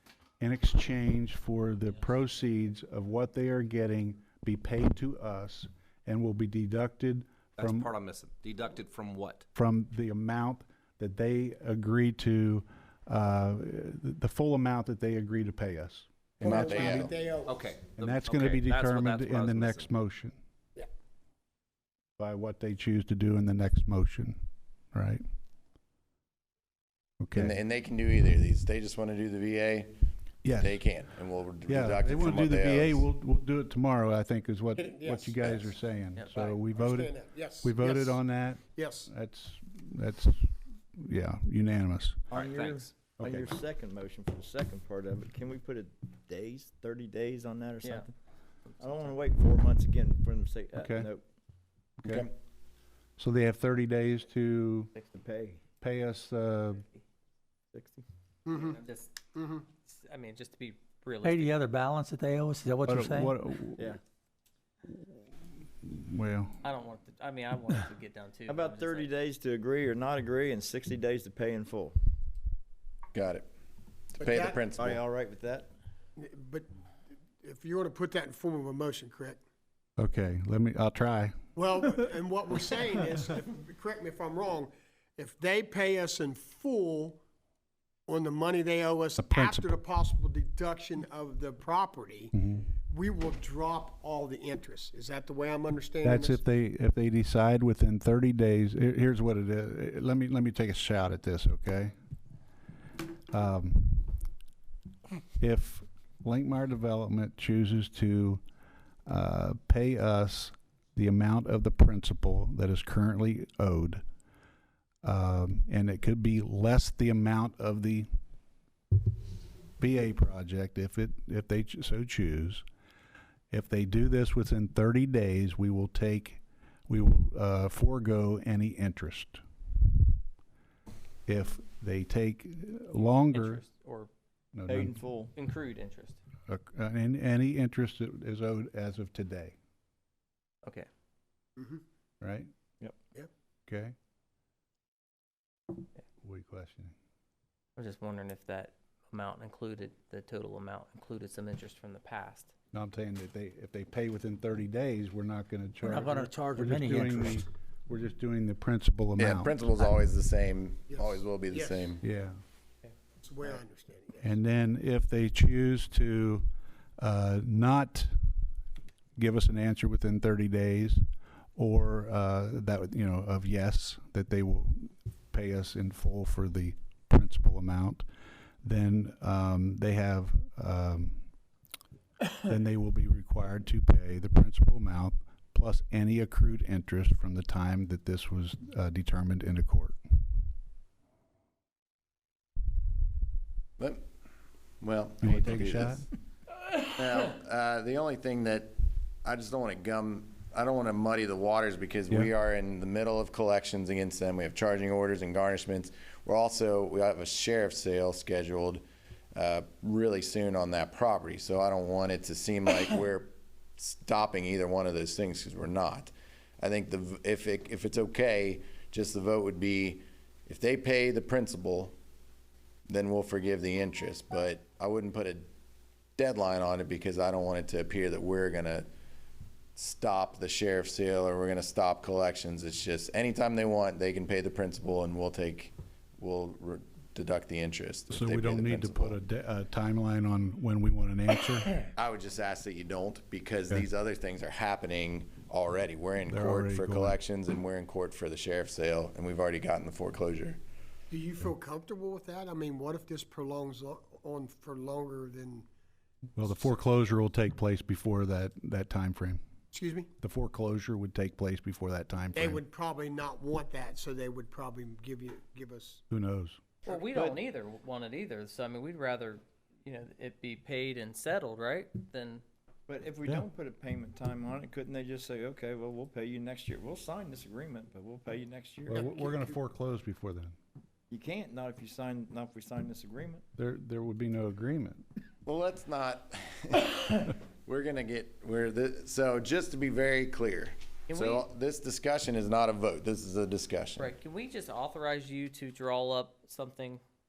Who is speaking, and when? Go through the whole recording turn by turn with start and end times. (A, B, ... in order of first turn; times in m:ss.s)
0:00.4-0:07.9 A
0:07.6-0:09.4 B
0:09.5-0:17.1 A
0:16.4-0:17.1 C
0:16.4-0:17.6 D
0:16.6-0:16.9 B
0:17.4-0:19.9 B
0:18.0-0:20.4 A
0:22.2-0:24.4 A
0:24.9-0:25.2 A
0:27.2-0:27.6 A
0:27.4-0:29.9 C
0:30.4-0:30.8 A
0:30.5-0:33.0 C
0:31.7-0:42.2 A
0:34.8-0:35.7 D
0:36.3-0:39.1 D
0:42.3-0:48.1 E
0:42.3-0:42.9 B
0:43.2-0:43.5 A
0:47.8-0:48.1 F
0:48.8-0:51.2 E
0:50.8-0:51.1 A
0:52.0-0:52.3 A
0:52.0-0:52.3 C
0:53.2-0:54.9 A
0:55.0-0:55.6 E
0:55.8-0:56.8 A
0:57.7-0:58.0 E
0:58.4-0:58.8 D
0:58.5-0:59.2 F
0:59.3-0:59.6 D
0:59.8-1:01.6 F
1:01.2-1:03.3 G
1:02.8-1:03.9 A
1:05.8-1:06.6 A
1:06.6-1:09.1 F
1:08.5-1:12.0 E
1:13.1-1:13.5 C
1:14.2-1:15.0 C
1:14.2-1:14.6 D
1:14.8-1:15.7 E
1:16.2-1:16.7 D
1:17.4-1:19.4 D
1:20.0-1:21.4 A
1:21.6-1:27.2 D
1:28.1-1:32.3 D
1:29.2-1:29.8 A
1:32.3-1:32.7 A
1:32.9-1:36.4 D
1:36.0-1:41.9 A
1:43.3-1:44.1 A
1:45.4-1:48.4 A
1:49.1-1:54.0 A
1:55.0-1:58.1 A
1:59.8-2:02.6 A
2:03.5-2:09.4 A
2:11.3-2:13.6 A
2:13.0-2:14.1 F
2:14.5-2:15.0 A
2:14.7-2:15.3 E
2:15.4-2:16.2 F
2:16.5-2:19.5 A
2:22.2-2:22.5 A
2:23.7-2:23.9 A
2:26.2-2:26.9 A
2:27.8-2:32.5 F
2:32.7-2:39.5 A
2:35.8-2:37.4 G
2:39.2-2:42.0 C
2:40.9-2:41.9 D
2:42.0-2:42.4 A
2:43.2-2:44.3 D
2:44.2-2:46.4 A
2:47.0-2:48.1 A
2:49.2-2:51.0 A
2:51.6-2:58.0 A
2:58.6-3:01.2 A
3:02.4-3:10.0 A
3:14.8-3:16.0 C
3:15.2-3:16.0 A
3:16.9-3:28.8 C
3:29.3-3:41.9 C
3:42.9-3:45.5 C
3:46.2-3:48.9 C
3:49.8-3:59.2 C
3:58.1-4:01.7 A
4:01.9-4:10.6 C
4:06.3-4:07.2 A
4:11.1-4:15.7 D
4:16.4-4:19.4 A
4:19.7-4:20.1 D
4:20.2-4:22.6 A
4:22.3-4:26.0 D
4:26.1-4:26.6 A
4:26.8-4:32.4 F
4:27.1-4:27.4 E
4:32.9-4:39.0 E
4:38.9-4:40.6 A
4:38.9-4:39.6 D
4:41.1-4:43.4 E
4:43.6-4:45.0 A
4:45.4-4:54.1 C
4:51.1-4:51.4 F
4:54.0-4:57.0 F